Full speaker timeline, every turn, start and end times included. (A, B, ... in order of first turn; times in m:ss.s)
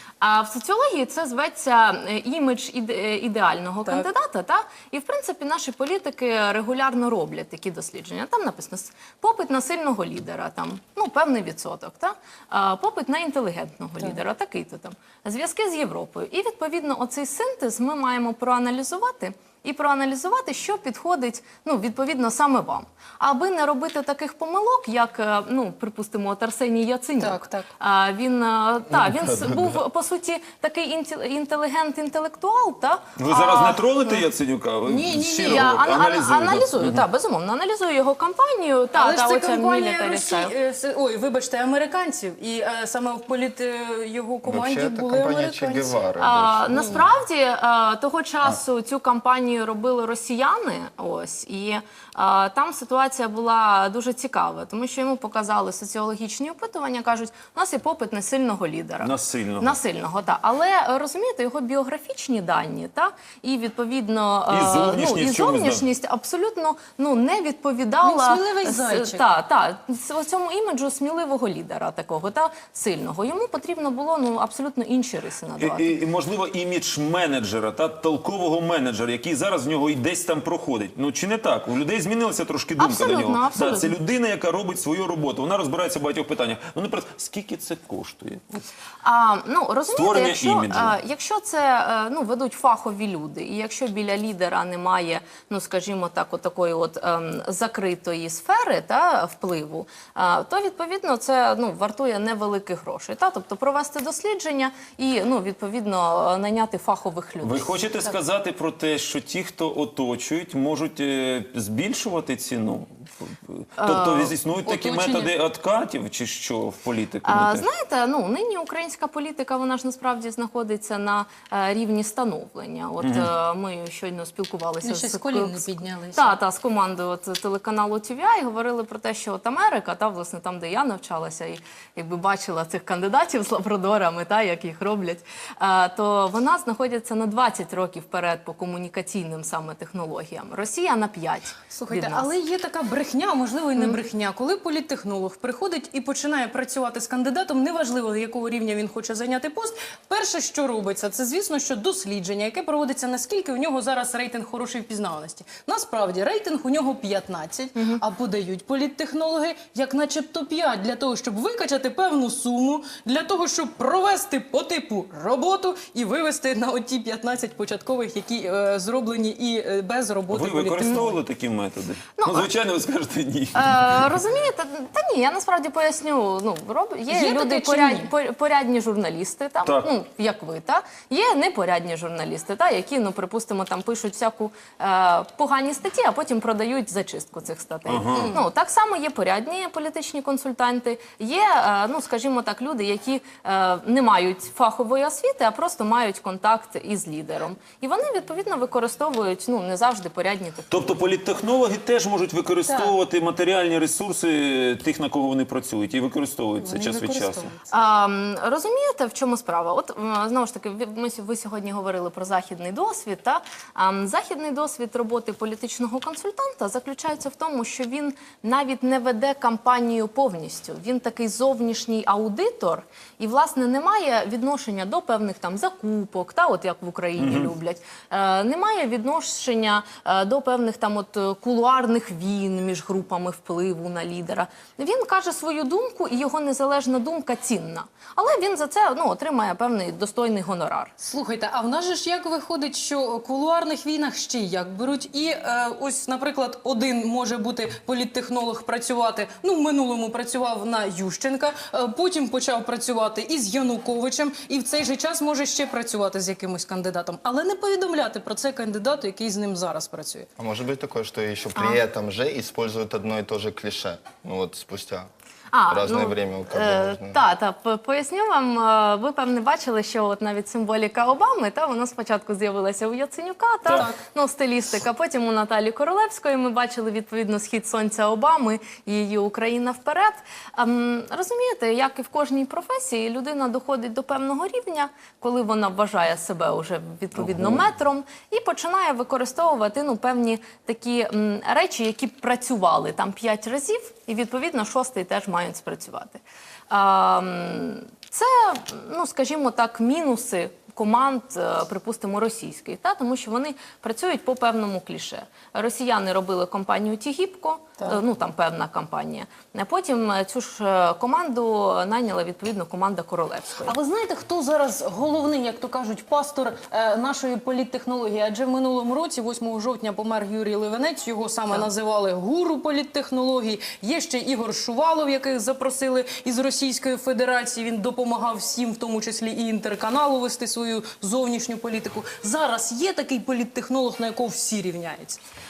0:00.2-0:34.3 A
0:27.2-0:27.7 B
0:33.2-0:37.0 C
0:34.8-0:35.7 B
0:35.4-0:40.5 A
0:38.9-0:46.0 B
0:44.4-0:46.8 D
0:46.2-1:16.0 A
0:46.7-0:47.0 B
0:59.0-0:59.8 C
1:04.5-1:05.8 C
1:08.0-1:09.3 B
1:15.6-1:28.6 C
1:22.8-1:24.0 A
1:29.0-1:47.8 A
1:29.9-1:31.0 C
1:47.4-1:57.7 C
1:53.8-1:54.4 A
1:54.6-1:55.3 B
1:57.2-2:22.3 A
2:03.0-2:03.3 C
2:04.8-2:06.3 B
2:21.7-2:51.2 B
2:37.8-2:38.0 A
2:50.3-2:54.0 C
2:50.8-2:51.1 A
2:52.2-2:52.5 A
2:53.5-3:20.7 A
2:57.1-2:58.1 B
3:07.9-3:08.3 C
3:08.1-3:08.4 B
3:20.7-3:27.5 C
3:22.7-3:22.9 B
3:26.6-3:27.6 B
3:27.7-4:00.9 A
3:47.2-3:47.5 C
4:01.0-4:20.3 B
4:20.4-4:25.1 D
4:21.5-4:21.8 A
4:25.5-5:13.8 A
4:25.7-4:27.2 D
4:33.7-4:34.0 B
4:47.3-4:47.6 C
5:13.6-5:35.2 B